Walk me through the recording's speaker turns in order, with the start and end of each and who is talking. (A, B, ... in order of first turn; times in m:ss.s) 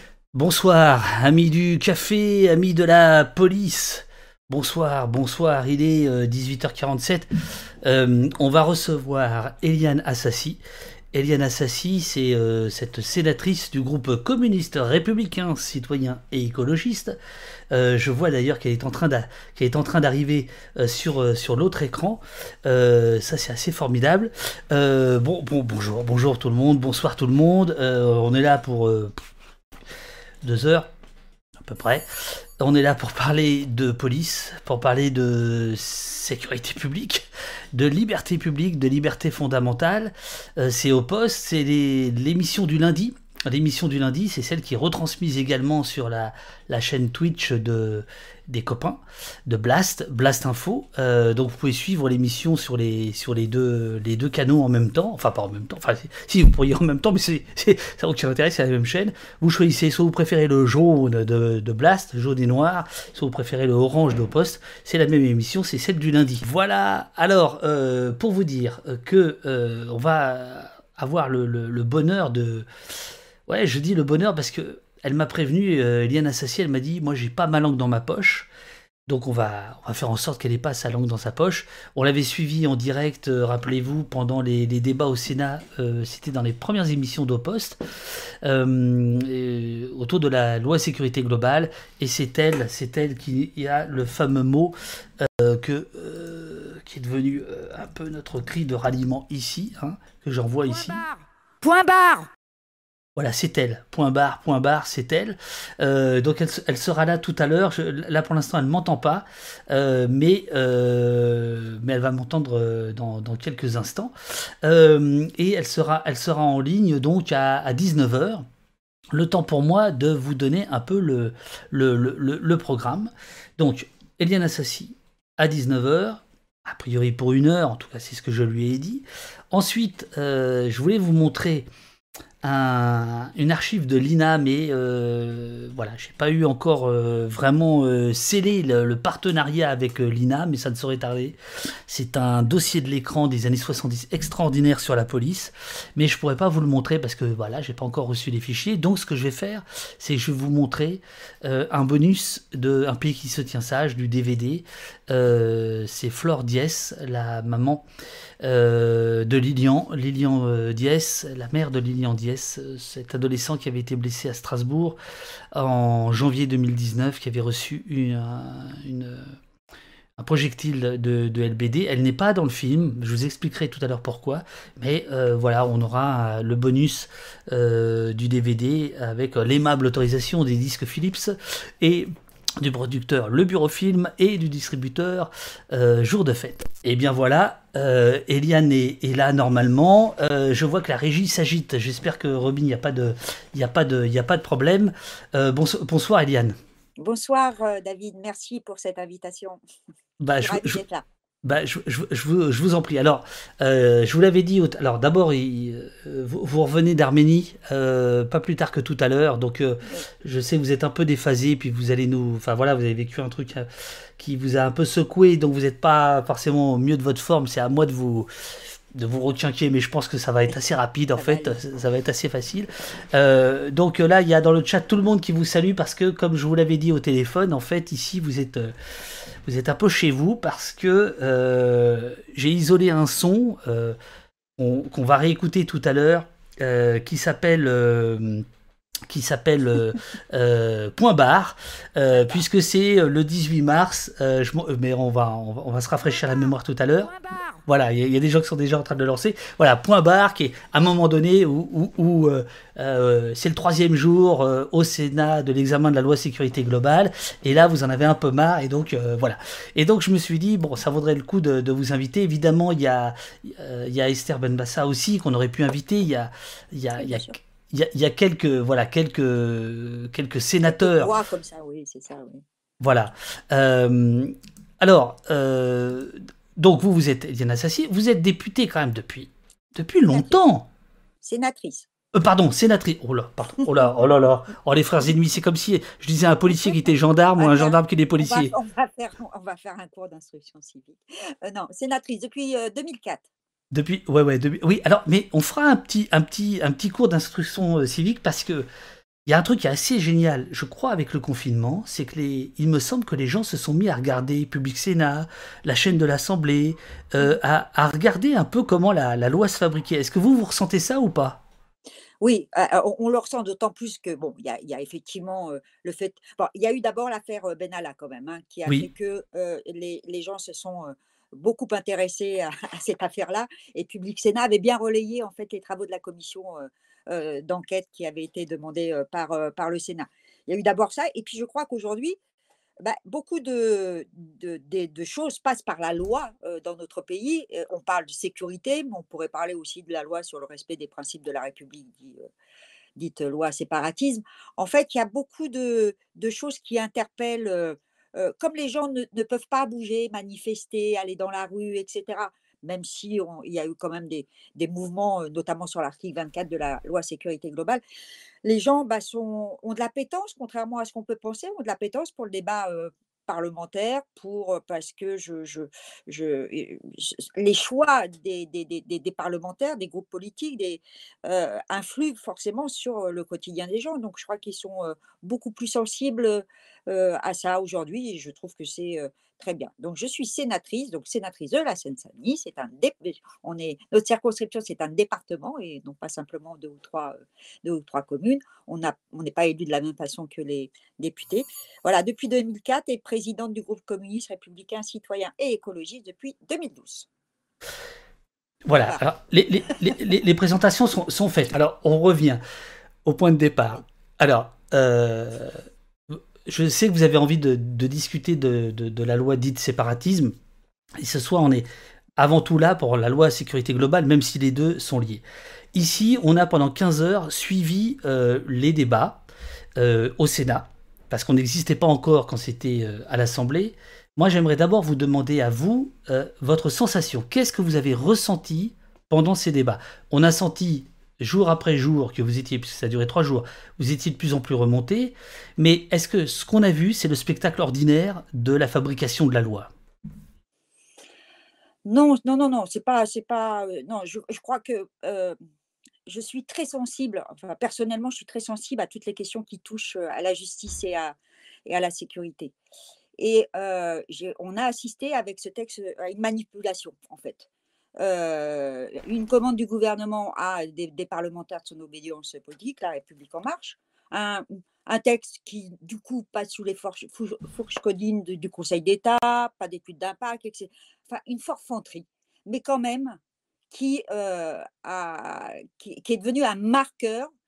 0:00.3-0:07.3 A
0:07.8-0:10.6 A
0:11.1-0:17.2 A
0:17.7-0:29.3 A
0:30.4-0:30.9 A
0:31.6-0:32.1 A
0:32.6-1:12.7 A
1:13.5-1:18.5 A
1:19.1-1:41.0 A
1:40.6-1:42.3 B
1:43.2-1:58.5 A
1:59.1-2:11.7 A
2:12.4-2:37.9 A
2:38.4-2:45.0 A
2:45.5-2:49.3 A
2:50.2-3:02.1 A
3:02.6-3:16.6 A
3:17.0-3:19.6 B
3:20.2-3:20.8 A
3:20.4-3:21.0 B
3:21.4-3:38.3 A
3:38.9-3:48.7 A
3:41.2-3:41.6 B
3:49.4-3:54.0 A
3:54.6-3:58.4 A
3:59.1-4:07.1 A
4:06.1-4:07.6 B
4:07.7-4:31.1 A
4:27.0-4:27.4 B
4:30.6-4:32.4 B
4:32.8-4:40.7 A
4:41.2-4:41.9 B
4:42.1-4:48.5 A
4:47.4-4:53.2 B
4:53.7-4:58.7 A
4:59.3-5:11.4 A
5:12.2-5:32.2 B
5:32.8-5:42.3 B
5:43.0-5:57.8 B
5:58.4-6:37.1 B
6:38.7-6:42.4 A
6:43.0-6:45.6 A
6:46.1-6:50.3 A
6:51.0-6:59.2 A
6:59.8-7:19.7 A
7:21.8-7:25.4 B
7:26.1-7:32.5 B
7:33.2-7:53.2 B
7:53.7-7:57.3 B